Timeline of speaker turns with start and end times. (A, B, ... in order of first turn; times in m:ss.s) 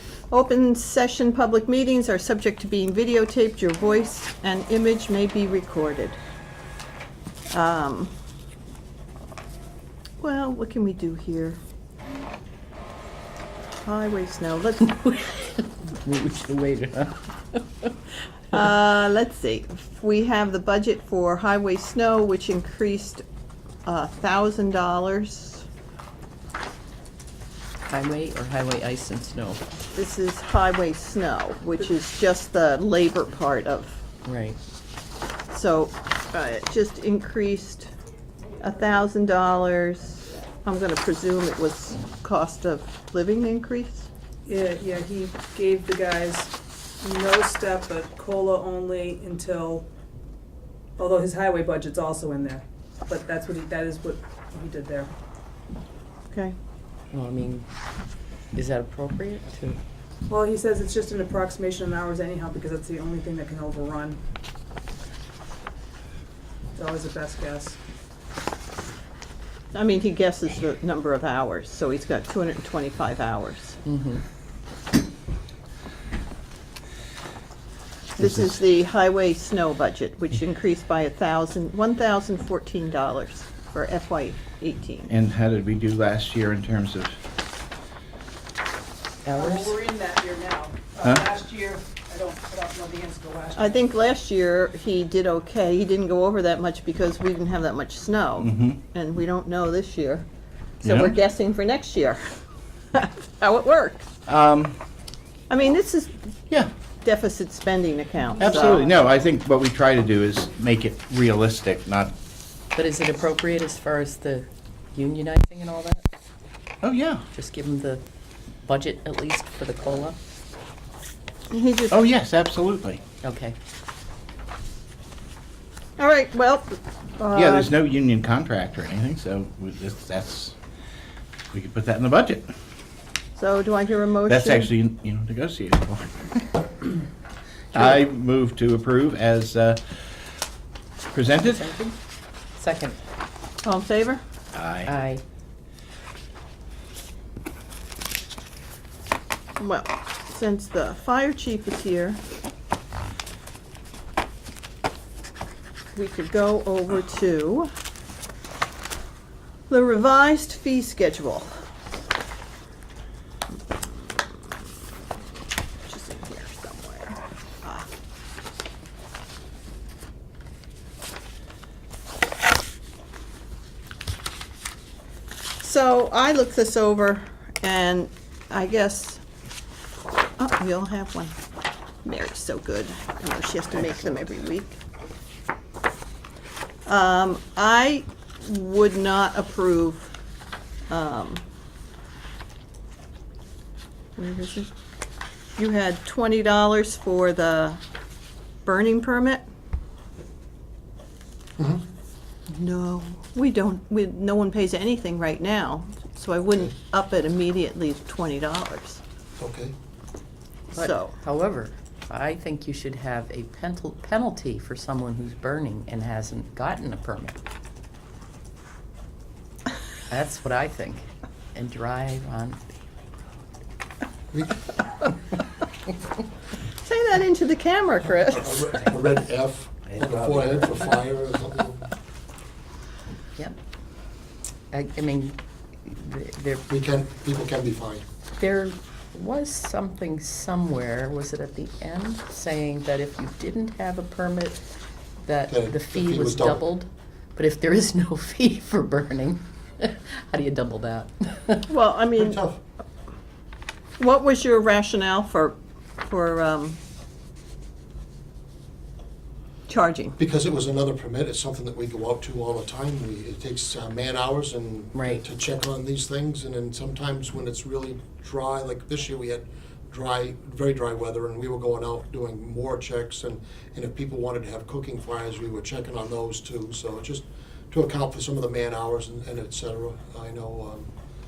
0:00.3-0:06.2 A
0:07.5-0:08.1 A
0:10.2-0:11.6 A
0:13.8-0:15.0 A
0:14.8-0:17.9 B
0:18.5-0:23.2 A
0:23.8-0:25.6 A
0:27.8-0:29.6 B
0:29.9-0:34.0 A
0:34.2-0:34.6 B
0:35.5-0:37.9 A
0:38.6-0:44.1 A
0:44.4-0:49.8 C
0:51.0-0:55.1 C
0:57.1-0:57.6 B
0:58.5-0:59.8 B
1:00.3-1:04.2 C
1:06.8-1:07.8 C
1:09.7-1:13.8 A
1:13.8-1:14.2 B
1:18.2-1:25.1 A
1:18.2-1:18.5 D
1:25.1-1:27.2 D
1:29.2-1:29.7 B
1:29.3-1:33.8 C
1:33.6-1:40.2 A
1:38.4-1:38.8 D
1:40.8-1:41.2 D
1:40.8-1:42.2 A
1:42.9-1:44.0 A
1:44.3-1:44.8 D
1:45.5-1:46.3 A
1:47.0-1:48.8 A
1:48.4-1:52.1 D
1:52.7-1:56.0 B
1:56.8-1:57.2 D
1:57.3-1:58.0 B
1:58.6-2:00.2 B
2:01.5-2:02.0 A
2:01.9-2:03.0 D
2:03.2-2:03.6 B
2:06.0-2:07.7 A
2:07.3-2:10.5 D
2:11.5-2:12.5 D
2:13.3-2:14.7 A
2:14.3-2:16.9 D
2:17.7-2:20.0 D
2:21.1-2:21.7 D
2:21.4-2:22.0 B
2:22.6-2:23.0 B
2:23.6-2:24.2 A
2:24.5-2:24.9 D
2:24.8-2:25.2 B
2:29.6-2:32.2 A
2:35.9-2:37.7 A
2:39.7-2:41.5 A
2:43.7-2:44.4 A
2:45.9-2:47.9 A
2:55.6-2:59.2 A
3:00.4-3:01.4 A
3:02.0-3:04.8 A
3:06.8-3:10.1 A
3:10.9-3:11.4 A
3:14.2-3:14.7 A
3:15.6-3:17.8 A
3:18.6-3:19.4 A
3:21.6-3:21.8 E
3:22.5-3:29.0 A
3:29.4-3:29.8 E
3:30.7-3:37.4 B
3:30.7-3:31.1 A
3:40.1-3:42.6 B
3:44.3-3:44.7 E
3:46.8-3:48.9 A
3:48.4-3:51.9 E
3:54.7-3:56.6 B
3:56.7-3:58.0 E
3:58.4-4:04.6 B
4:05.2-4:11.6 B
4:05.5-4:06.6 E
4:11.7-4:12.4 A
4:12.2-4:12.6 E
4:14.0-4:16.8 A
4:19.7-4:20.2 A
4:20.2-4:40.9 E
4:24.9-4:25.2 B